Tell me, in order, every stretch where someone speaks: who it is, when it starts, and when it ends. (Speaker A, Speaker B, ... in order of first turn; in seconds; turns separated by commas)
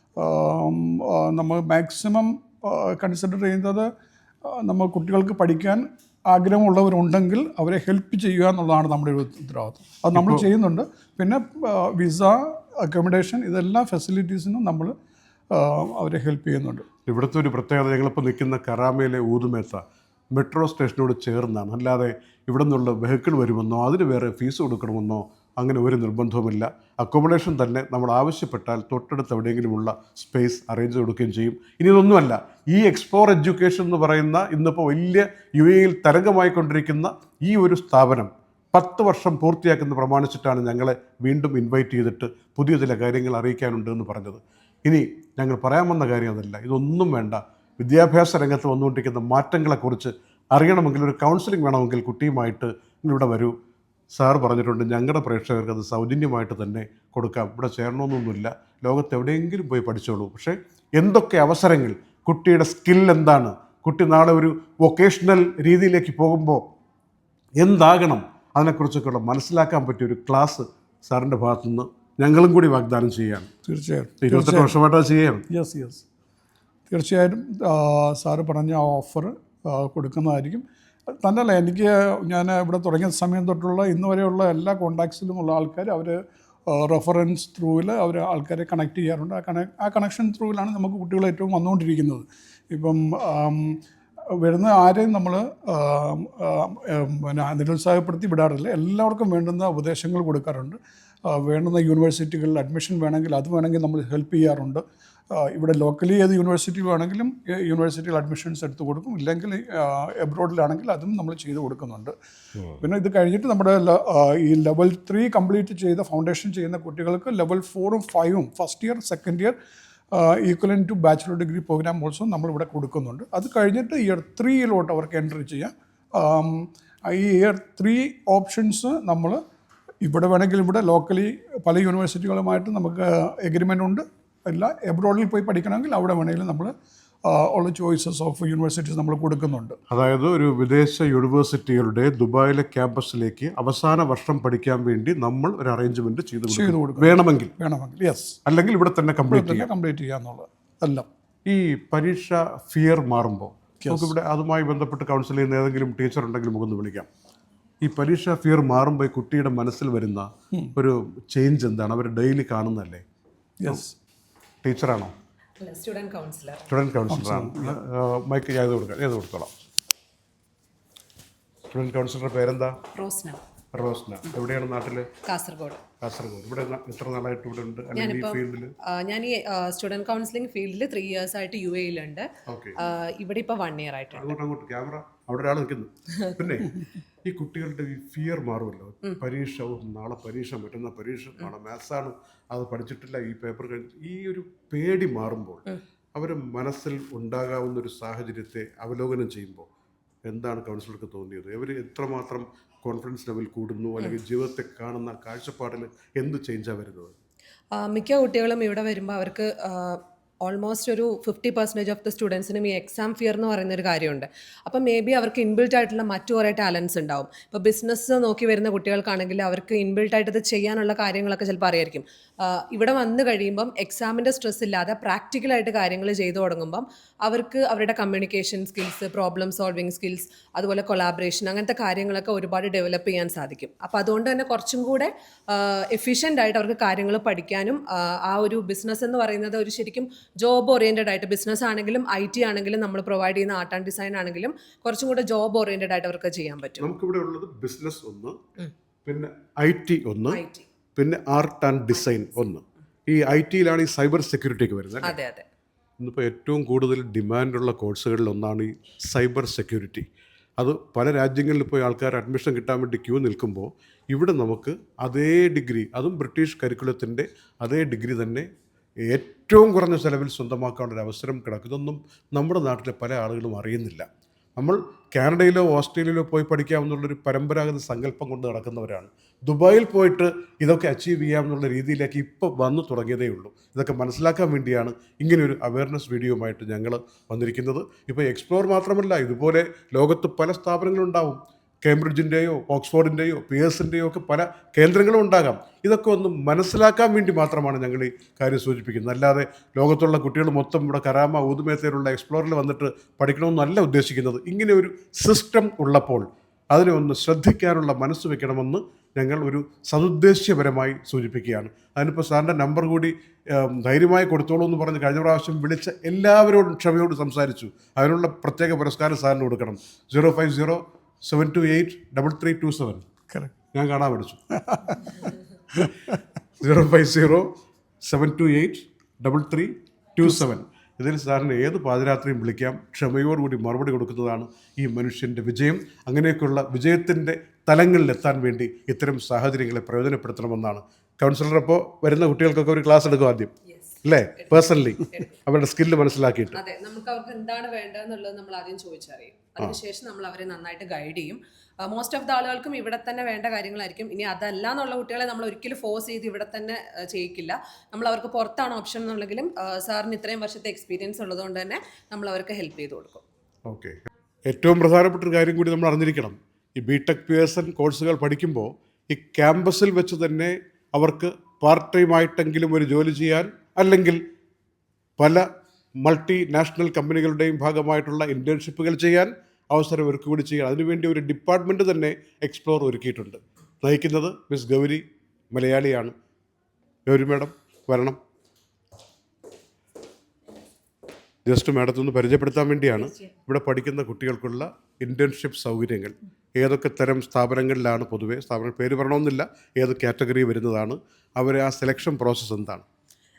Speaker A: 0.2-3.9, Speaker A: 4.4-14.9, Speaker B: 10.1-10.4, Speaker A: 15.5-16.9, Speaker B: 17.1-53.5, Speaker B: 54.1-66.6, Speaker B: 67.6-73.5, Speaker A: 73.6-74.7, Speaker B: 74.2-75.4, Speaker A: 75.5-76.0, Speaker A: 76.9-93.8, Speaker A: 94.3-112.1, Speaker A: 112.8-119.5, Speaker A: 120.1-129.4, Speaker A: 130.0-136.7, Speaker A: 137.2-139.8, Speaker B: 139.9-147.5, Speaker A: 146.5-148.4, Speaker B: 148.4-149.7, Speaker A: 149.3-151.1, Speaker B: 151.4-157.1, Speaker A: 153.8-154.1, Speaker B: 157.8-163.0, Speaker A: 163.6-163.9, Speaker B: 164.6-165.1, Speaker C: 165.6-166.7, Speaker B: 166.7-169.5, Speaker A: 167.1-167.7, Speaker B: 171.7-172.8, Speaker C: 172.9-173.4, Speaker B: 173.7-175.1, Speaker C: 175.2-175.8, Speaker B: 176.0-178.7, Speaker C: 177.9-184.3, Speaker B: 182.5-182.8, Speaker B: 184.1-199.7, Speaker B: 200.2-207.1, Speaker C: 207.7-246.9, Speaker B: 246.8-248.4, Speaker B: 249.0-250.4, Speaker C: 250.3-250.7, Speaker B: 250.9-255.1, Speaker C: 255.0-255.4, Speaker B: 256.0-260.1, Speaker B: 260.6-268.5, Speaker B: 269.0-323.0, Speaker B: 323.7-324.4, Speaker A: 324.5-326.1, Speaker B: 326.6-327.5, Speaker B: 328.0-343.5, Speaker C: 343.7-345.4, Speaker B: 344.0-346.6, Speaker C: 346.5-363.2, Speaker B: 363.7-374.2, Speaker B: 375.2-375.5, Speaker B: 376.0-386.1, Speaker B: 387.1-388.2, Speaker B: 391.4-402.8